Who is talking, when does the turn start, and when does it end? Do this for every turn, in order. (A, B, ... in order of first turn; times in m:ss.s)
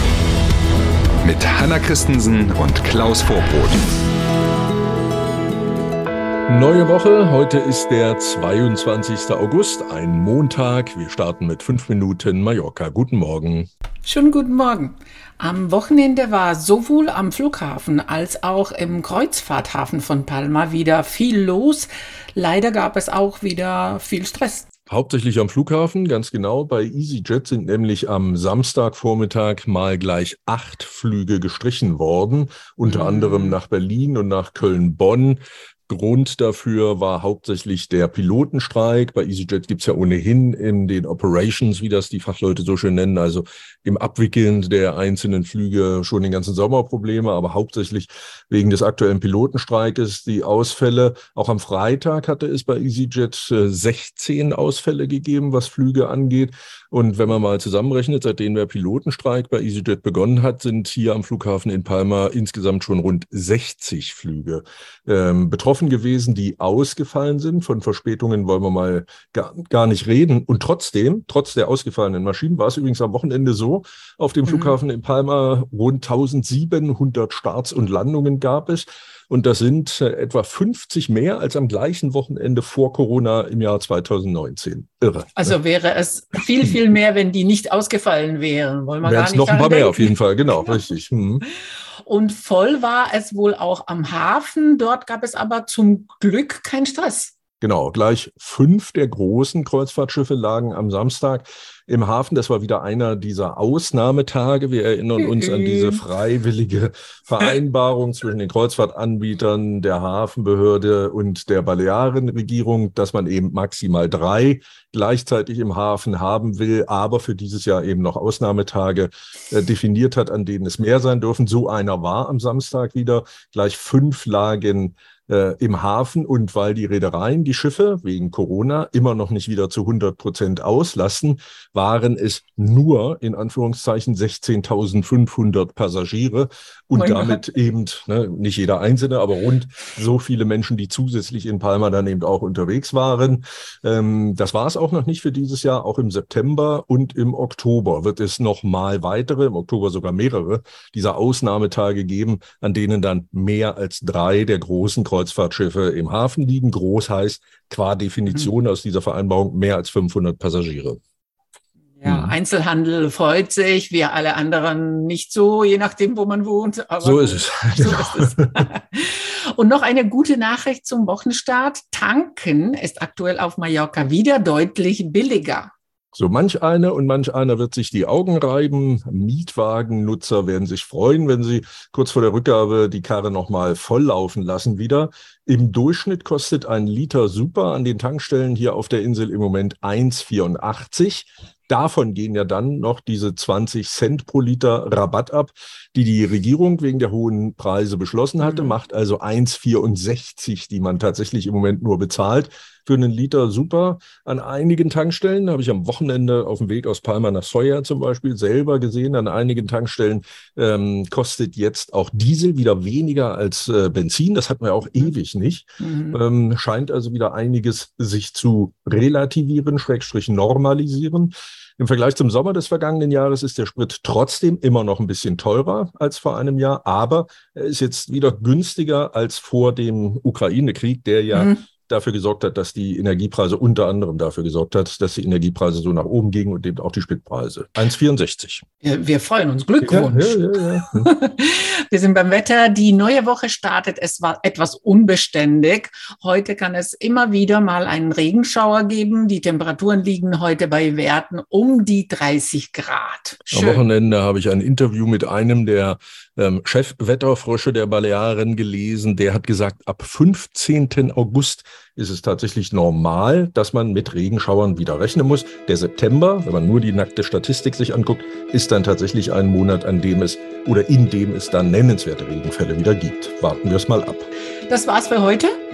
0:01.2-0:03.9 A
0:06.5-0:13.7 B
0:14.0-0:24.7 C
0:24.9-1:25.5 B
0:32.8-0:33.6 C
1:14.5-1:14.8 C
1:25.4-1:30.8 C
1:29.0-1:31.4 B
1:32.0-1:37.3 C
1:37.6-2:41.0 B
1:45.2-1:46.0 C
2:17.0-2:17.4 C
2:42.0-2:55.7 C
2:42.0-2:42.4 B
2:47.0-2:48.6 B
2:56.1-3:58.6 B
3:18.4-3:18.8 C
3:35.8-3:36.1 C
3:51.3-3:51.6 C
3:58.8-4:13.8 C
3:59.8-4:01.1 B
4:13.5-4:34.3 B
4:34.7-4:35.5 C